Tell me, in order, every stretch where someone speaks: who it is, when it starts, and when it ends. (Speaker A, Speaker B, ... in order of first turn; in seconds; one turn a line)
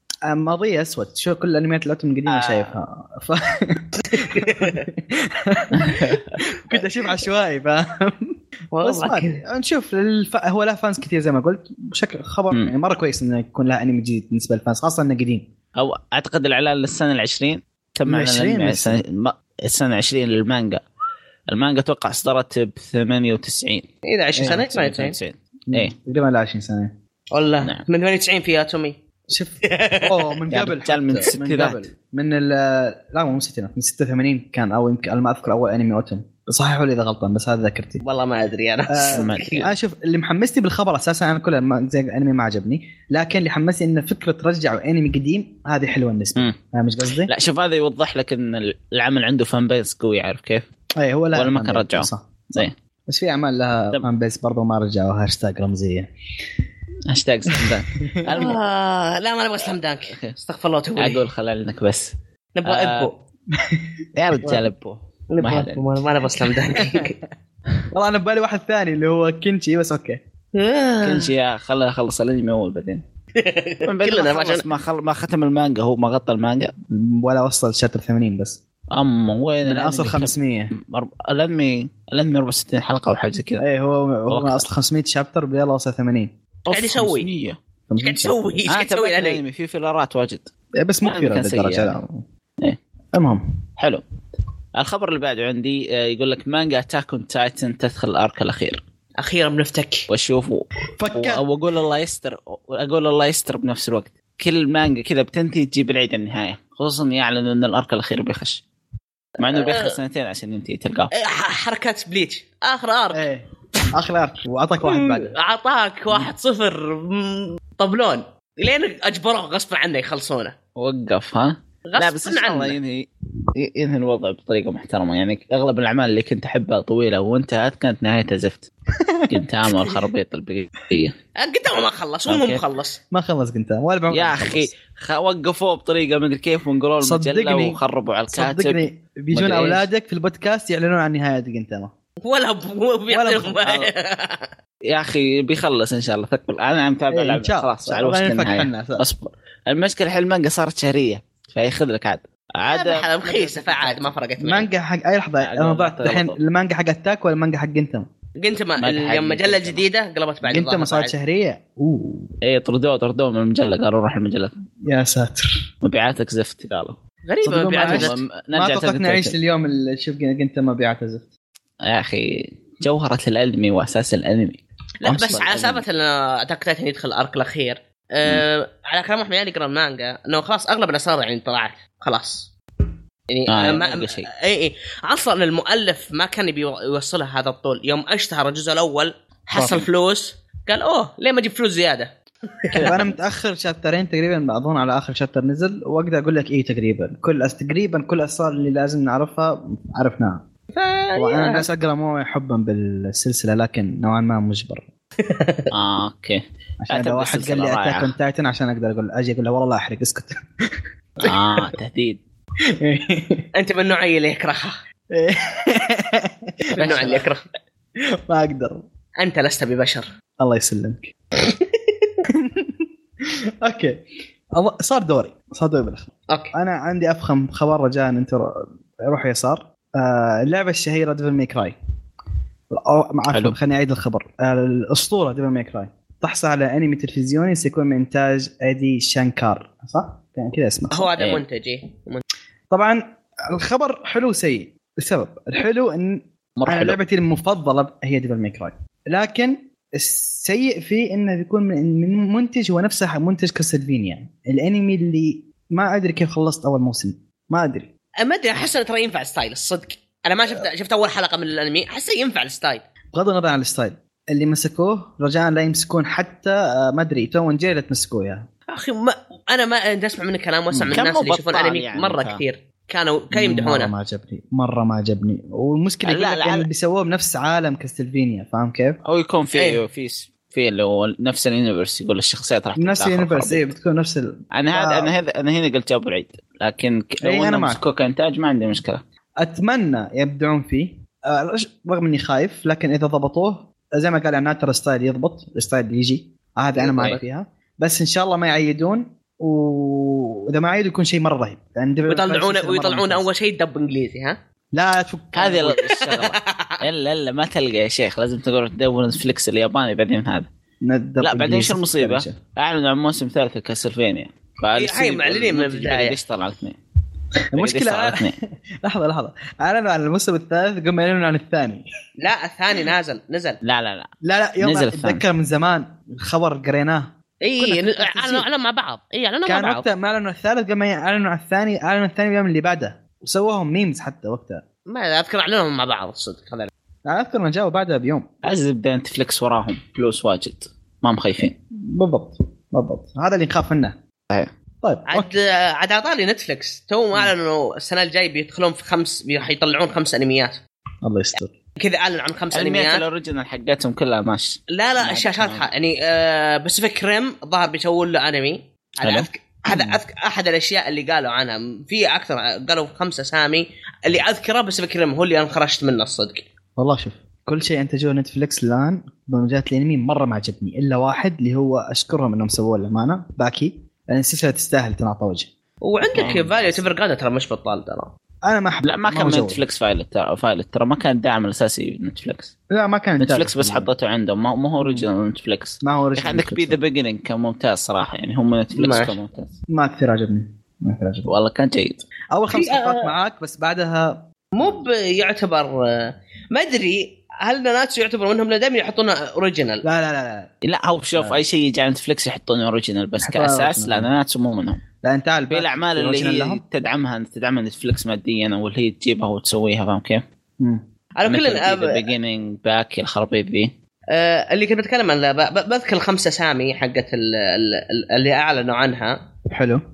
Speaker A: 0.3-15.5
Speaker B: 2.3-2.8
Speaker C: 4.0-4.8
Speaker B: 5.8-6.2
Speaker C: 8.7-9.4
Speaker B: 15.8-20.8
Speaker A: 18.1-19.0
Speaker B: 21.5-23.9
Speaker C: 24.1-25.1
Speaker A: 24.4-24.6
Speaker B: 24.4-25.9
Speaker A: 25.7-27.0
Speaker C: 27.3-29.0
Speaker A: 29.3-38.0
Speaker C: 29.6-30.3
Speaker B: 30.5-31.8
Speaker C: 38.0-39.7
Speaker A: 38.9-47.3
Speaker B: 39.1-39.6
Speaker B: 47.2-50.6
Speaker A: 51.0-56.1
Speaker B: 51.3-52.7
Speaker B: 57.1-58.6
Speaker A: 57.5-58.5
Speaker C: 58.3-61.2
Speaker B: 60.1-60.4
Speaker B: 61.0-62.1
Speaker C: 62.5-63.2
Speaker B: 62.6-63.1
Speaker A: 63.5-64.7
Speaker B: 64.2-66.1
Speaker C: 65.3-67.2
Speaker A: 67.9-70.2
Speaker C: 70.5-71.3
Speaker B: 71.0-73.0
Speaker C: 73.3-74.6
Speaker B: 73.8-76.7
Speaker A: 76.9-78.6
Speaker B: 78.9-83.6
Speaker A: 79.6-80.7
Speaker A: 83.6-86.3
Speaker B: 84.3-84.6
Speaker B: 86.7-87.6
Speaker C: 86.7-87.3
Speaker A: 87.9-88.3
Speaker C: 88.0-89.4
Speaker B: 88.7-90.5
Speaker A: 90.8-92.2
Speaker B: 91.0-92.0
Speaker A: 93.1-93.6
Speaker B: 93.8-94.0
Speaker B: 94.8-98.8
Speaker C: 99.2-100.1
Speaker B: 100.1-108.6
Speaker A: 101.0-101.4
Speaker B: 109.4-111.1
Speaker C: 109.4-110.0
Speaker C: 111.1-113.2
Speaker A: 113.1-115.3
Speaker C: 114.8-120.5
Speaker B: 120.8-128.7
Speaker C: 121.9-122.8
Speaker A: 129.0-129.4
Speaker B: 129.3-131.2
Speaker C: 131.4-133.0
Speaker B: 132.3-132.6
Speaker A: 133.1-134.7
Speaker B: 134.1-139.8
Speaker A: 137.0-137.8
Speaker A: 138.3-141.9
Speaker C: 142.2-144.5
Speaker A: 143.1-143.6
Speaker B: 144.9-154.2
Speaker A: 147.1-149.0
Speaker C: 152.7-154.7
Speaker A: 154.4-158.1
Speaker B: 155.4-156.4
Speaker C: 158.4-161.1
Speaker B: 158.8-159.8
Speaker A: 160.4-162.3
Speaker B: 162.4-164.5
Speaker A: 164.8-165.7
Speaker B: 165.8-167.0
Speaker C: 167.3-168.2
Speaker A: 167.4-171.3
Speaker B: 167.8-169.3
Speaker B: 171.8-175.8
Speaker C: 175.0-182.5
Speaker C: 183.3-192.9
Speaker B: 183.5-184.3
Speaker B: 192.8-193.1
Speaker A: 192.8-200.5
Speaker C: 200.7-201.6
Speaker A: 201.2-204.9
Speaker C: 205.2-205.7
Speaker B: 205.7-208.1
Speaker A: 206.8-211.3
Speaker B: 211.2-212.2
Speaker A: 212.8-213.4
Speaker C: 213.5-214.8
Speaker A: 215.1-217.2
Speaker C: 216.7-217.4
Speaker B: 216.8-217.2
Speaker A: 218.3-218.8
Speaker C: 219.2-220.1
Speaker A: 220.4-221.1
Speaker C: 221.4-222.1
Speaker A: 222.3-222.8
Speaker A: 223.6-224.0
Speaker A: 224.5-231.8
Speaker A: 232.7-241.1
Speaker B: 233.3-233.6
Speaker C: 240.9-242.2
Speaker B: 241.2-241.4
Speaker A: 242.7-257.9
Speaker B: 246.6-247.0
Speaker C: 258.2-262.8
Speaker A: 263.1-268.5
Speaker C: 268.7-273.9
Speaker B: 270.9-272.4
Speaker A: 273.3-279.0
Speaker B: 276.1-276.7
Speaker B: 279.0-283.7
Speaker C: 279.5-279.8
Speaker A: 282.8-285.1
Speaker B: 284.5-289.0
Speaker A: 287.2-287.8
Speaker A: 289.4-303.3
Speaker C: 296.8-297.2
Speaker C: 302.1-304.4
Speaker A: 304.7-305.8
Speaker B: 305.3-310.5
Speaker C: 305.9-306.8
Speaker A: 310.8-312.4
Speaker B: 311.2-316.8
Speaker C: 314.8-316.2
Speaker A: 317.5-321.8
Speaker B: 317.5-318.3
Speaker C: 322.2-323.6
Speaker B: 323.6-324.1
Speaker A: 324.2-328.5
Speaker B: 324.6-325.2
Speaker C: 327.4-329.9
Speaker A: 329.5-334.6
Speaker C: 334.9-336.7
Speaker A: 337.1-338.3
Speaker B: 338.4-341.5
Speaker A: 341.9-344.0
Speaker A: 344.8-345.3
Speaker C: 345.1-350.6
Speaker A: 351.0-351.5
Speaker C: 351.8-353.0
Speaker B: 352.5-355.7
Speaker C: 354.7-366.5
Speaker A: 359.7-360.0
Speaker A: 366.8-375.5
Speaker C: 375.8-378.1
Speaker B: 376.1-376.7
Speaker A: 378.4-379.6
Speaker B: 378.8-382.5
Speaker A: 382.7-383.9
Speaker B: 383.2-389.5
Speaker A: 384.8-385.1
Speaker A: 385.8-386.8
Speaker C: 388.7-389.1
Speaker A: 389.7-391.3
Speaker B: 391.3-392.0
Speaker A: 392.3-394.8
Speaker C: 392.5-393.1
Speaker C: 394.5-399.8
Speaker A: 399.8-400.5
Speaker B: 400.6-404.8
Speaker A: 401.1-401.4
Speaker A: 403.2-404.1
Speaker A: 405.0-406.6
Speaker B: 405.5-410.2
Speaker A: 410.6-410.8
Speaker C: 411.2-412.1
Speaker B: 411.3-413.7
Speaker C: 414.1-419.2
Speaker A: 419.5-419.8